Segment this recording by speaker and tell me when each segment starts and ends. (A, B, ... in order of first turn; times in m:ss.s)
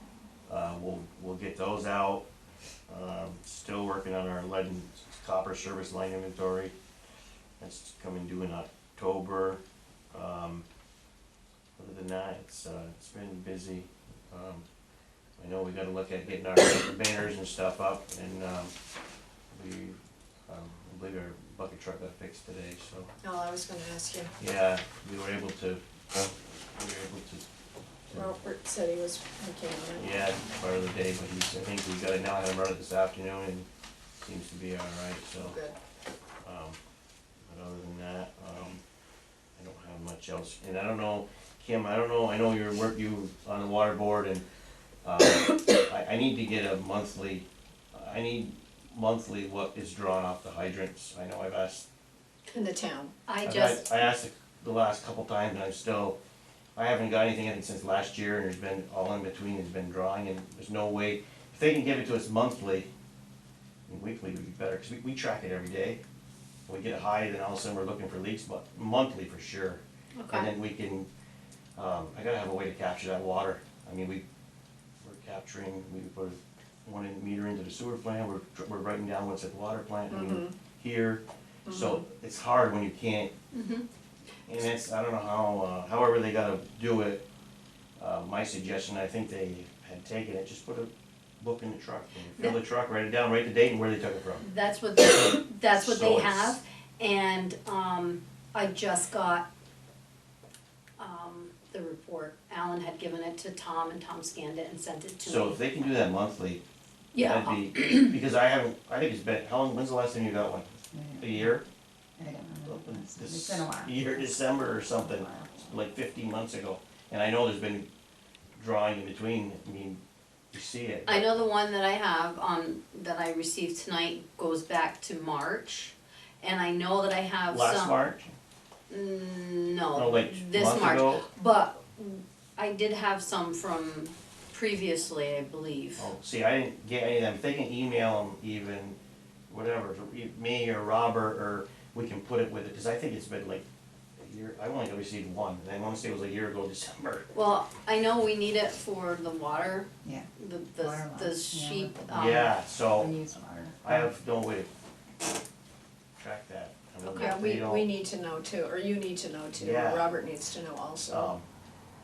0:00.5-0:02.2 A
0:02.9-0:06.7 A
0:07.6-0:09.6 A
0:10.1-0:10.6 A
0:11.8-0:14.6 A
0:15.4-0:18.7 A
0:19.5-0:23.1 A
0:23.2-0:24.3 B
0:24.4-0:25.8 A
0:26.8-0:27.5 A
0:28.1-0:30.1 B
0:30.0-0:33.7 A
0:34.2-0:35.6 A
0:35.4-0:35.8 B
0:36.4-0:36.8 A
0:37.5-0:38.8 A
0:39.6-0:44.4 A
0:45.0-0:51.9 A
0:52.5-0:53.1 B
0:53.3-0:54.0 C
0:53.4-0:56.2 A
0:56.8-1:02.9 A
1:03.9-1:06.0 A
1:06.7-1:11.1 A
1:10.2-1:10.5 C
1:11.8-1:14.2 A
1:15.0-1:23.3 A
1:20.1-1:20.6 B
1:21.7-1:22.0 B
1:23.5-1:23.9 C
1:24.5-1:27.2 A
1:28.0-1:30.9 A
1:31.4-1:34.4 A
1:34.4-1:39.5 C
1:35.2-1:36.6 A
1:41.0-1:45.6 C
1:45.2-1:46.6 A
1:47.1-1:48.2 C
1:47.2-1:51.6 A
1:50.9-1:51.5 D
1:52.2-1:55.5 D
1:52.6-1:57.9 A
1:58.6-2:00.0 A
2:00.5-2:01.4 A
2:01.1-2:08.1 C
2:07.5-2:08.3 A
2:08.9-2:16.1 C
2:10.0-2:11.2 A
2:16.0-2:19.0 A
2:19.5-2:23.6 A
2:24.2-2:27.3 A
2:27.3-2:32.5 C
2:30.8-2:34.1 D
2:32.1-2:33.1 A
2:33.8-2:34.7 A
2:36.2-2:37.8 A
2:37.0-2:37.4 C
2:37.2-2:41.3 B
2:39.6-2:40.0 A
2:41.1-2:41.5 A